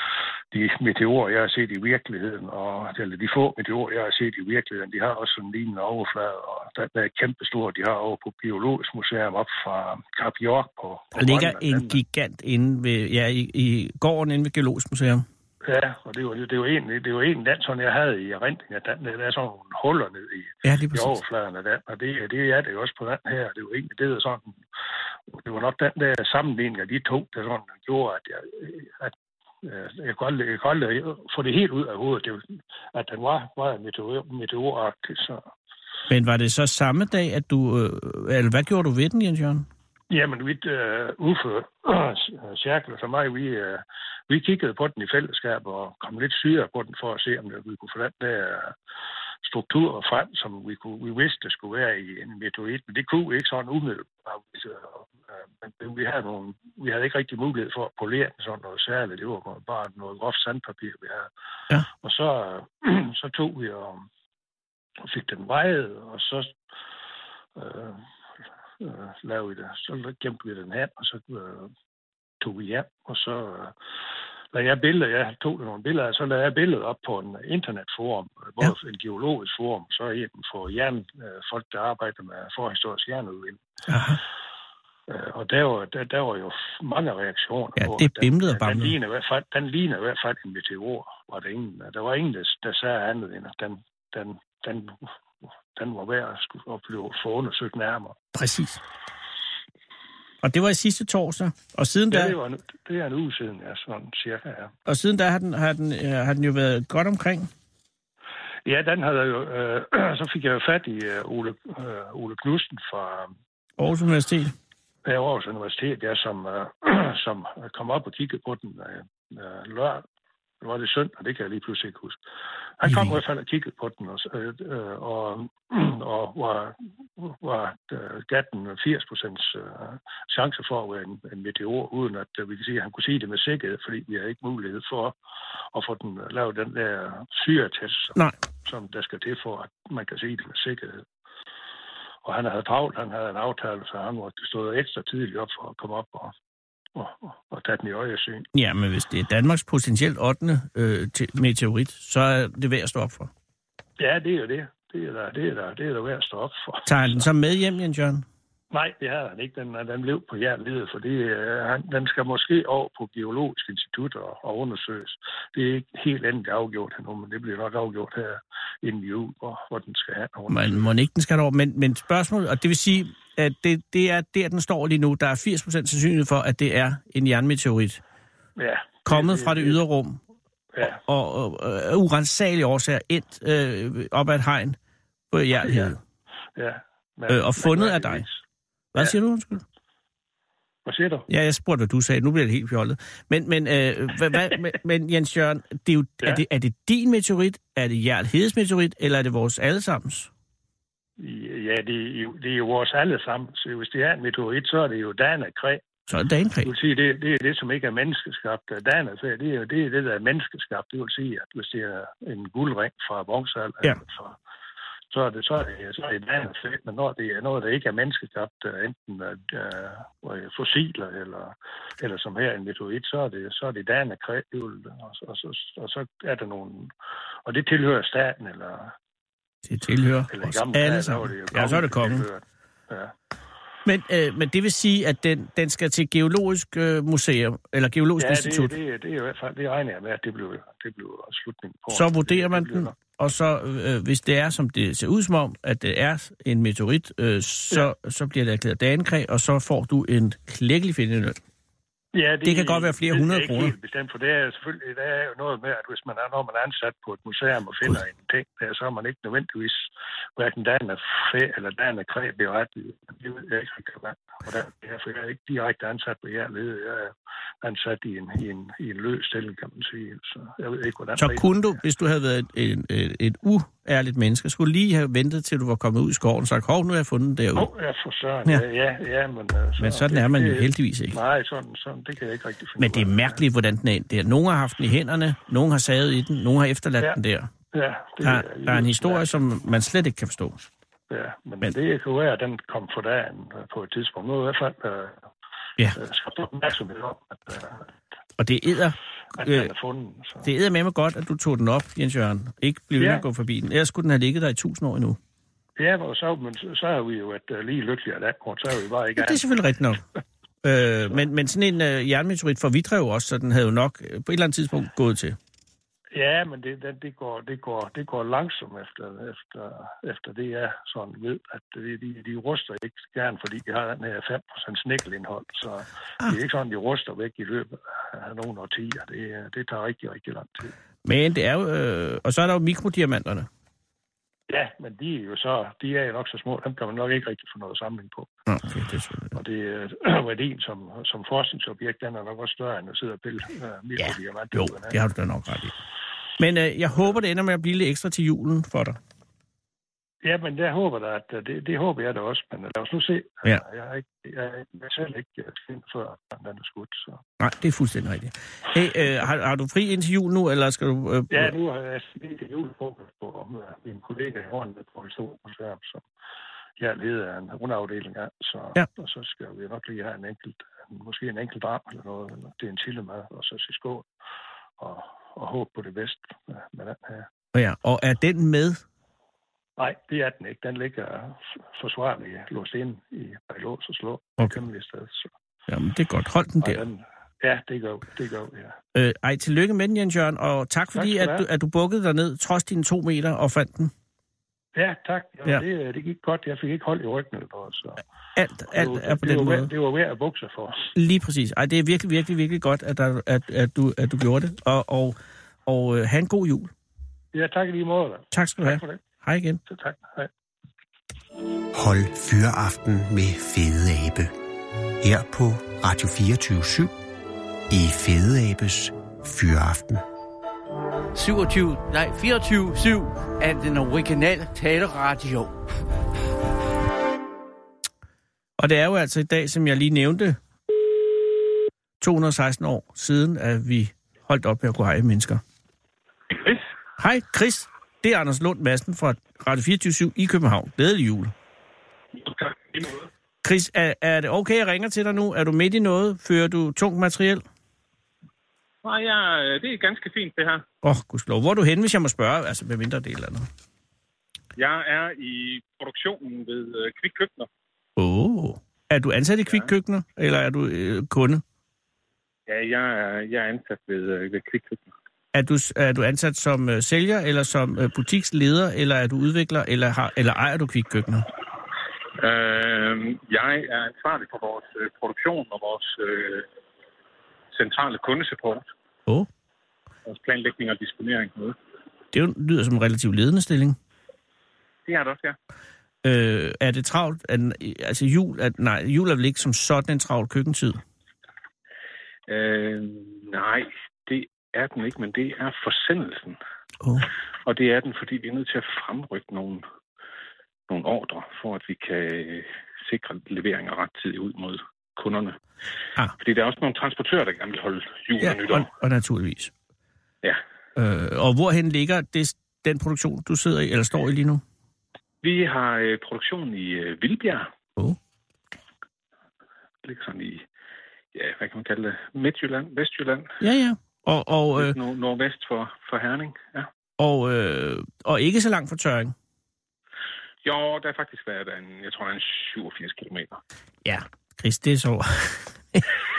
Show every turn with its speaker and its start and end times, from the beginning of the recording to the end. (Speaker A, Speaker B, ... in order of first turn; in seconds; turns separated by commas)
Speaker A: 0.5-12.0, Speaker B: 11.2-15.2, Speaker A: 15.6-24.6, Speaker B: 20.6-21.2, Speaker A: 25.3-35.5, Speaker B: 36.1-39.6, Speaker A: 40.1-48.7, Speaker A: 49.4-55.1, Speaker A: 55.6-61.3, Speaker A: 62.0-64.0, Speaker A: 65.0-66.5, Speaker A: 67.5-68.0, Speaker A: 68.8-71.7, Speaker A: 72.4-73.7, Speaker A: 74.5-83.6, Speaker B: 83.9-84.2, Speaker A: 85.1-95.0, Speaker B: 87.8-88.9, Speaker A: 95.7-98.2, Speaker B: 98.3-98.8, Speaker B: 100.4-102.3, Speaker A: 102.1-104.7, Speaker B: 104.9-107.5, Speaker A: 108.7-113.3, Speaker B: 113.8-114.5, Speaker A: 115.0-120.0, Speaker A: 120.6-122.2, Speaker A: 122.8-135.1, Speaker B: 122.8-123.1, Speaker A: 135.7-141.0, Speaker A: 142.2-146.3, Speaker A: 146.9-148.5, Speaker B: 148.5-153.3, Speaker A: 154.0-157.3, Speaker B: 156.9-158.2, Speaker A: 158.7-170.9, Speaker B: 170.5-178.0, Speaker A: 178.6-179.8, Speaker B: 179.1-180.2, Speaker A: 180.7-181.0, Speaker B: 180.8-184.8, Speaker B: 185.3-186.0, Speaker A: 185.6-185.9, Speaker A: 186.6-188.4, Speaker B: 187.3-188.2, Speaker B: 188.9-189.6, Speaker A: 190.8-191.3, Speaker B: 191.3-200.3, Speaker A: 201.2-205.8, Speaker B: 206.1-206.7, Speaker A: 206.6-214.3, Speaker A: 215.1-226.9, Speaker A: 227.4-228.9, Speaker B: 229.7-232.2, Speaker A: 230.3-233.1, Speaker B: 233.8-238.7, Speaker A: 238.2-242.9, Speaker B: 241.9-251.4, Speaker A: 252.1-271.7, Speaker B: 252.4-253.7, Speaker B: 271.2-277.7, Speaker A: 277.6-283.4, Speaker B: 279.8-281.2, Speaker B: 282.8-287.5, Speaker A: 287.7-289.4, Speaker B: 288.2-290.6, Speaker A: 291.1-295.2, Speaker A: 295.9-297.9, Speaker B: 298.4-299.7, Speaker A: 299.4-300.5, Speaker B: 300.4-305.2, Speaker A: 303.0-303.2, Speaker A: 305.8-309.4, Speaker B: 309.2-310.0, Speaker B: 310.6-315.4, Speaker A: 316.1-330.7, Speaker B: 331.0-333.5, Speaker A: 334.5-338.3, Speaker B: 338.5-339.4, Speaker A: 339.3-344.9, Speaker B: 344.0-345.7, Speaker B: 346.4-349.0, Speaker A: 350.2-357.2, Speaker B: 357.4-361.5, Speaker A: 361.3-366.0, Speaker A: 366.8-374.1, Speaker A: 374.8-377.3, Speaker B: 377.5-378.8, Speaker A: 379.8-385.3, Speaker B: 385.7-386.8, Speaker A: 386.6-388.8, Speaker B: 388.9-393.9, Speaker A: 390.9-391.4, Speaker A: 394.7-398.0, Speaker B: 398.4-399.7, Speaker A: 398.7-400.8, Speaker B: 400.9-405.1, Speaker B: 405.7-406.7, Speaker A: 407.3-409.0, Speaker B: 408.3-409.6, Speaker A: 409.7-410.3, Speaker C: 411.7-414.3, Speaker C: 415.0-416.9, Speaker C: 417.7-420.0, Speaker D: 421.1-425.5, Speaker B: 428.6-430.4, Speaker B: 432.0-435.4, Speaker E: 436.3-436.6, Speaker B: 437.0-441.3, Speaker E: 442.2-443.0, Speaker B: 443.4-447.4, Speaker E: 448.8-450.6, Speaker B: 450.8-453.5, Speaker E: 454.6-457.5, Speaker B: 458.0-461.4, Speaker E: 462.5-464.9, Speaker B: 465.3-471.3, Speaker E: 472.2-476.4, Speaker E: 477.5-478.6, Speaker E: 480.1-481.5, Speaker B: 482.1-483.8, Speaker E: 484.9-485.4, Speaker B: 486.0-490.8, Speaker E: 492.3-496.4, Speaker B: 496.8-497.1, Speaker E: 497.4-499.6, Speaker E: 500.7-505.4, Speaker E: 506.2-508.7, Speaker B: 508.2-509.5, Speaker B: 510.8-514.4, Speaker E: 515.2-517.5, Speaker E: 519.8-520.5, Speaker E: 521.1-523.4, Speaker B: 523.4-524.8, Speaker E: 524.5-526.7, Speaker B: 527.0-529.1, Speaker E: 530.4-533.4, Speaker B: 533.8-535.9